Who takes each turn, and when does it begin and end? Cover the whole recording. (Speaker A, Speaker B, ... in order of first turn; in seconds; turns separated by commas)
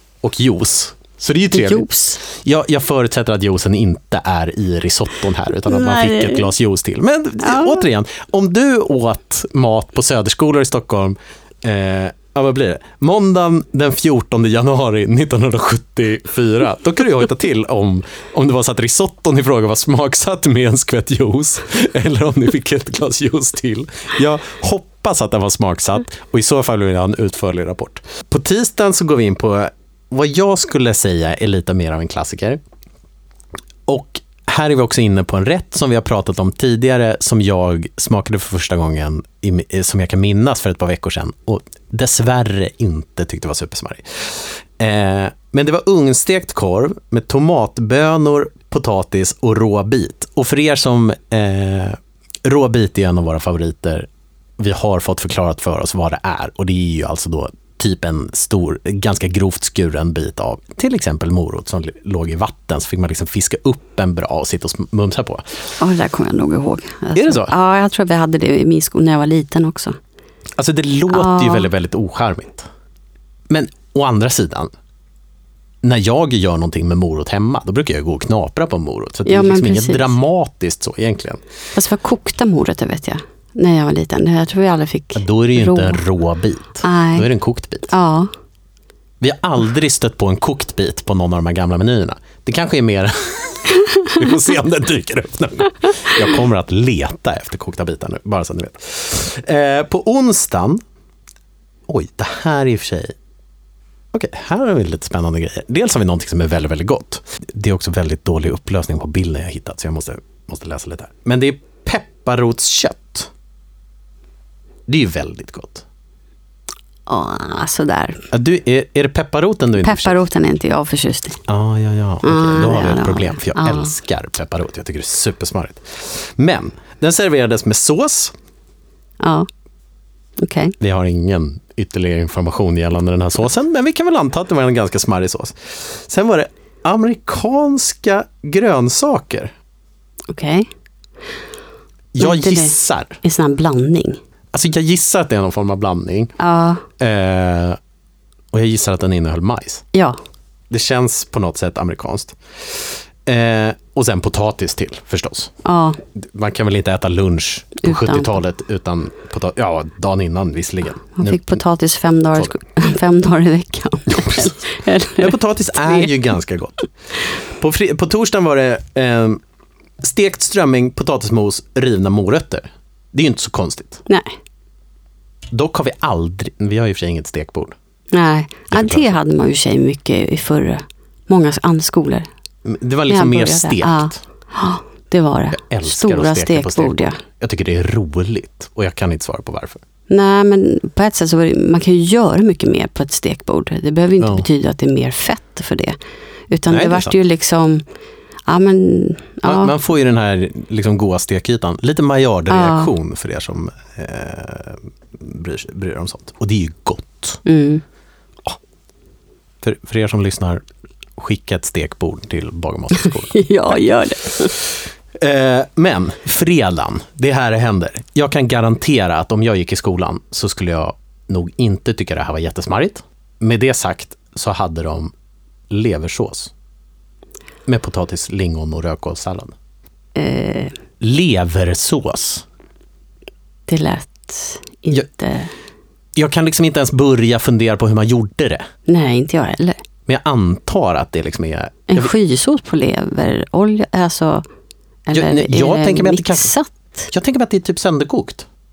Speaker A: 0.2-32.6, Speaker B: 1.5-2.2, Speaker B: 5.7-6.5, Speaker B: 7.4-7.8, Speaker A: 33.9-54.1, Speaker A: 54.6-65.7, Speaker B: 65.8-70.0, Speaker A: 67.2-67.5, Speaker A: 70.6-72.7, Speaker B: 71.1-71.7, Speaker A: 73.5-74.7, Speaker A: 75.8-81.4, Speaker B: 79.3-80.1, Speaker B: 81.8-86.0, Speaker A: 85.2-87.9, Speaker B: 86.8-87.3, Speaker B: 87.9-88.3, Speaker A: 89.2-100.8, Speaker A: 101.9-103.2, Speaker A: 104.1-113.3, Speaker A: 114.9-115.8, Speaker B: 117.1-118.3, Speaker A: 118.3-120.2, Speaker B: 119.8-121.4, Speaker A: 121.5-128.3, Speaker B: 122.2-123.9, Speaker B: 129.2-129.5, Speaker B: 130.4-130.8, Speaker A: 130.8-139.5, Speaker B: 140.3-140.7, Speaker A: 142.2-143.2, Speaker B: 142.2-144.2, Speaker A: 144.5-146.4, Speaker B: 146.4-146.8, Speaker A: 147.0-147.8, Speaker A: 148.5-149.8, Speaker A: 150.7-155.5, Speaker B: 155.6-156.0, Speaker A: 156.2-161.6, Speaker B: 157.8-158.4, Speaker B: 161.2-166.1, Speaker A: 164.1-164.5, Speaker A: 165.2-166.8, Speaker A: 167.6-169.4, Speaker A: 170.0-174.0, Speaker B: 174.1-174.3, Speaker A: 175.5-177.8, Speaker B: 178.1-182.3, Speaker A: 178.7-179.2, Speaker A: 182.7-184.2, Speaker B: 183.1-187.2, Speaker A: 185.5-189.8, Speaker B: 190.1-196.0, Speaker A: 194.2-194.5, Speaker B: 196.5-197.8, Speaker A: 196.7-197.2, Speaker B: 198.5-199.7, Speaker A: 199.4-207.4, Speaker B: 202.5-202.9, Speaker B: 207.4-207.8, Speaker A: 209.6-210.6, Speaker A: 211.2-213.5, Speaker B: 213.0-214.6, Speaker A: 215.2-225.1, Speaker A: 225.7-226.5, Speaker A: 227.7-229.5, Speaker B: 230.2-230.8, Speaker A: 231.0-232.4, Speaker B: 233.7-235.5, Speaker A: 236.2-238.7, Speaker B: 238.9-239.8, Speaker A: 240.1-242.1, Speaker B: 241.9-244.4, Speaker B: 245.1-247.1, Speaker A: 245.1-246.5, Speaker A: 247.1-248.5